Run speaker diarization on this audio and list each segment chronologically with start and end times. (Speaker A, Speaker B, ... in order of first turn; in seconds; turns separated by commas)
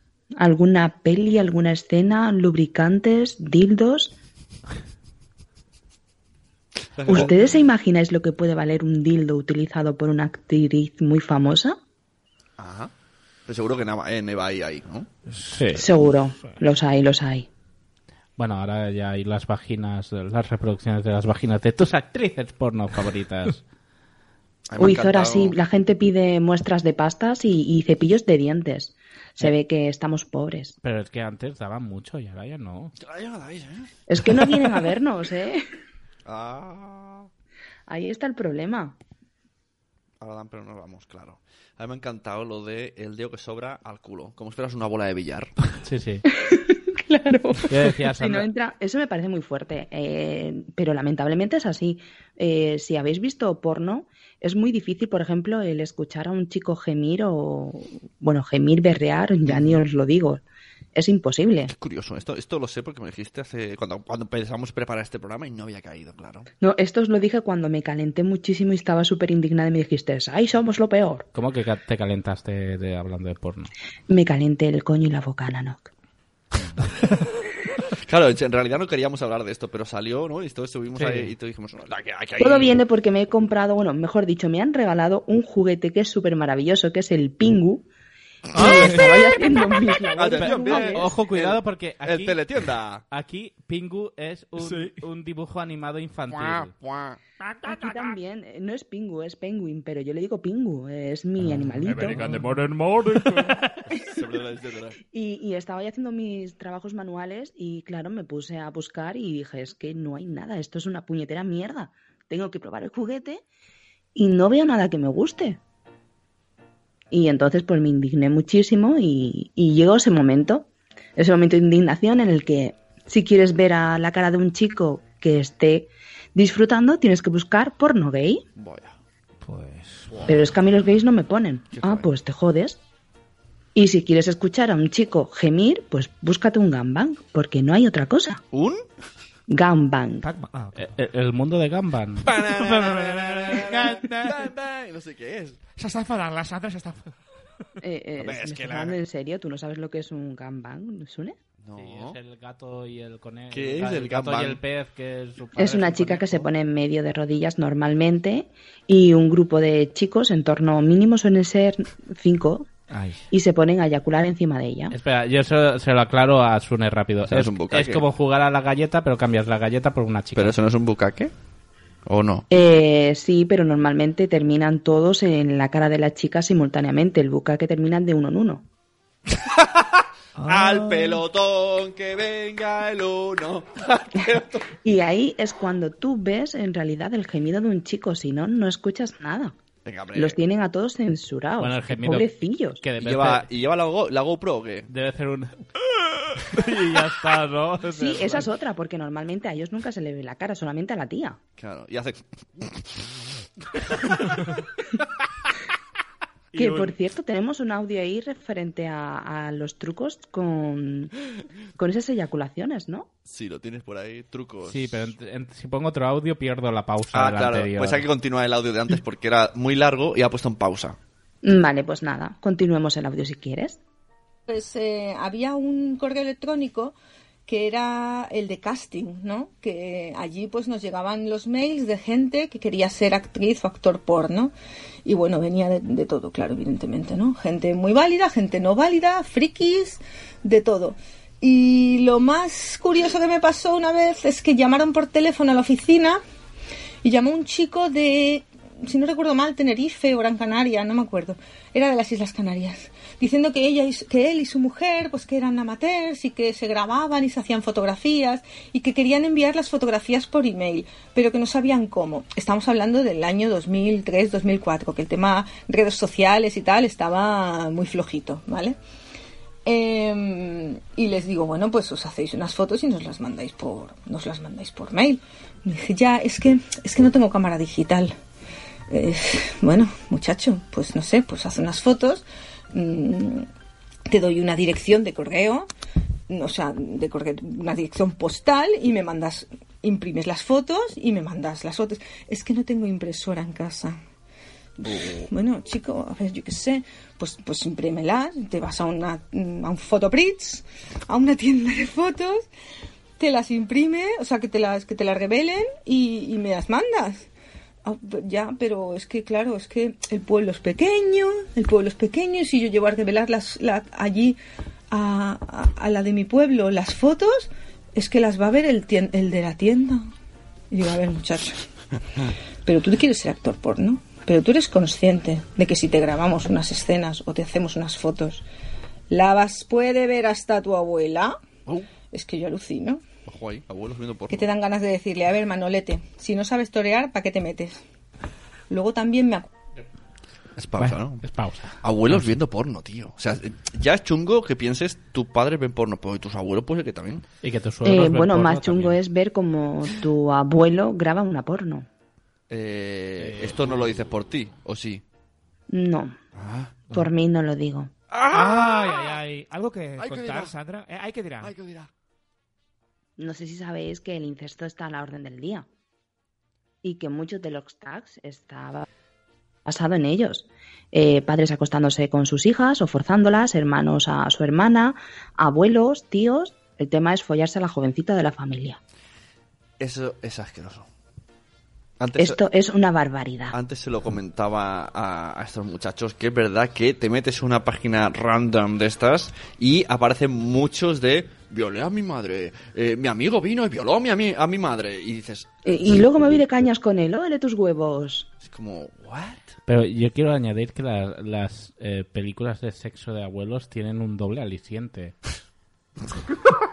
Speaker A: 0.4-4.1, Speaker B: 7.0-7.3, Speaker A: 7.1-11.8, Speaker B: 12.6-12.9, Speaker B: 13.5-15.1, Speaker C: 15.3-15.6, Speaker D: 15.5-15.8, Speaker A: 15.7-17.5, Speaker D: 18.4-23.6, Speaker B: 24.7-25.6, Speaker A: 24.8-30.8, Speaker D: 30.8-32.9, Speaker B: 33.0-33.9, Speaker A: 34.1-35.6, Speaker B: 36.2-37.3, Speaker A: 37.9-39.0, Speaker B: 40.2-45.6, Speaker D: 45.8-46.2, Speaker A: 46.4-60.4, Speaker D: 47.7-48.5, Speaker B: 59.5-59.8, Speaker A: 60.9-61.7, Speaker B: 61.7-66.5, Speaker A: 66.6-71.2, Speaker D: 71.3-73.7, Speaker A: 74.1-75.9, Speaker B: 78.0-82.8, Speaker D: 81.0-81.3, Speaker A: 82.4-87.8, Speaker A: 88.5-91.1, Speaker C: 88.5-89.6, Speaker B: 90.1-93.0, Speaker D: 90.5-92.4, Speaker D: 93.1-96.7, Speaker C: 94.6-95.0, Speaker B: 96.3-97.2, Speaker A: 97.6-102.2, Speaker C: 101.8-103.4, Speaker D: 102.0-103.6, Speaker B: 103.9-105.0, Speaker A: 105.1-113.4, Speaker A: 114.1-115.6, Speaker A: 117.1-128.4, Speaker B: 128.6-128.9, Speaker C: 129.4-130.3, Speaker A: 130.3-132.8, Speaker B: 131.7-132.1, Speaker A: 133.7-138.4, Speaker B: 138.5-138.8, Speaker A: 139.5-140.2, Speaker C: 140.2-140.9, Speaker D: 140.8-142.3, Speaker B: 142.2-145.6, Speaker C: 142.4-144.5, Speaker C: 145.8-147.1, Speaker A: 147.8-151.3, Speaker B: 148.2-148.9, Speaker B: 151.6-152.2, Speaker D: 151.8-156.5, Speaker B: 153.5-154.6, Speaker A: 155.6-162.7, Speaker C: 162.9-163.2, Speaker A: 163.3-164.9, Speaker D: 164.9-170.6, Speaker B: 167.3-168.0, Speaker B: 170.3-171.3, Speaker B: 172.1-172.5, Speaker A: 172.5-178.6, Speaker B: 179.5-179.9, Speaker C: 180.4-181.2, Speaker B: 180.4-184.7, Speaker A: 184.8-189.5, Speaker B: 189.8-190.4, Speaker A: 190.1-192.8, Speaker D: 191.6-193.4, Speaker B: 193.0-194.9, Speaker D: 194.9-195.5, Speaker D: 196.4-198.5, Speaker A: 197.9-201.4, Speaker B: 201.6-203.0, Speaker A: 206.5-211.1, Speaker A: 211.8-213.1, Speaker B: 213.2-215.1, Speaker D: 214.6-218.1, Speaker B: 217.1-221.0, Speaker A: 221.4-223.8, Speaker E: 224.5-226.9, Speaker E: 227.5-234.5, Speaker E: 235.0-246.2, Speaker E: 247.0-268.8, Speaker E: 269.6-278.1, Speaker E: 278.9-283.5, Speaker E: 284.1-285.7, Speaker E: 286.3-294.0, Speaker E: 294.8-302.5, Speaker B: 294.8-295.3, Speaker E: 303.2-307.2, Speaker E: 307.8-314.4, Speaker E: 314.9-320.1, Speaker E: 320.7-321.6, Speaker E: 322.6-328.4, Speaker E: 329.1-331.4, Speaker E: 332.1-333.0, Speaker B: 333.2-334.5, Speaker E: 334.3-337.8, Speaker E: 338.7-339.5, Speaker B: 340.6-341.2, Speaker D: 340.8-341.8, Speaker B: 341.8-347.2, Speaker D: 347.4-348.9, Speaker A: 347.8-351.9, Speaker B: 352.5-355.0, Speaker D: 353.2-353.6, Speaker A: 355.7-356.1, Speaker B: 356.3-356.7, Speaker A: 356.9-357.9, Speaker B: 358.1-359.0, Speaker C: 358.3-361.5, Speaker B: 360.0-360.5, Speaker B: 361.4-361.9, Speaker A: 363.2-365.6, Speaker A: 366.8-368.9, Speaker A: 369.6-378.8, Speaker B: 379.8-380.9, Speaker B: 382.0-382.4, Speaker A: 382.2-383.5, Speaker B: 383.5-395.5, Speaker A: 395.6-398.3, Speaker B: 398.4-399.5, Speaker D: 399.7-405.1